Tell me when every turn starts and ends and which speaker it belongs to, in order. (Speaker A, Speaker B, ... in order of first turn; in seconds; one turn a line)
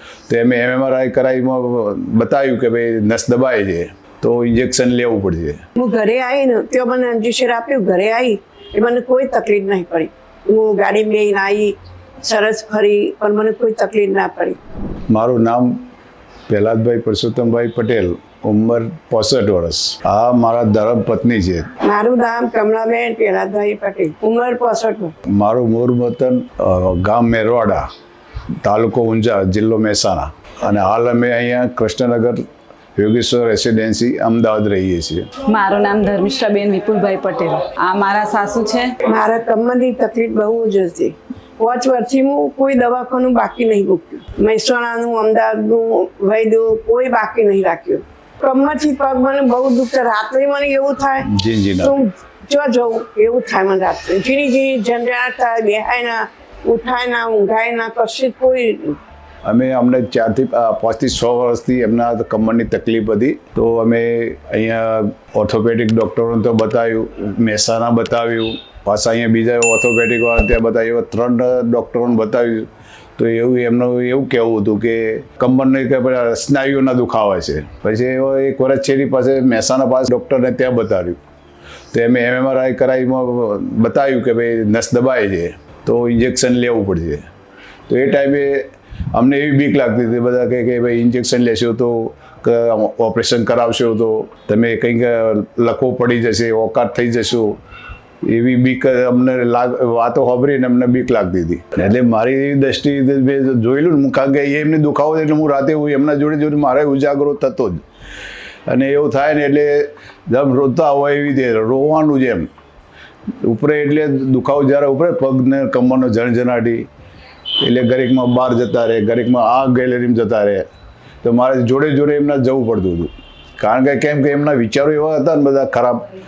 Speaker A: 0.3-5.6
Speaker B: 5.8-14.6
Speaker A: 15.1-15.8
Speaker A: 16.5-21.7
Speaker B: 21.8-25.1
Speaker A: 25.3-27.9
Speaker A: 28.6-32.4
Speaker A: 33.0-35.3
Speaker C: 35.4-39.0
Speaker B: 39.0-59.0
Speaker A: 51.2-52.0
Speaker A: 59.4-81.2
Speaker A: 81.9-87.2
Speaker A: 87.9-97.6
Speaker A: 98.2-107.8
Speaker A: 108.7-112.5
Speaker A: 113.4-116.9
Speaker A: 117.6-120.7
Speaker A: 121.2-126.1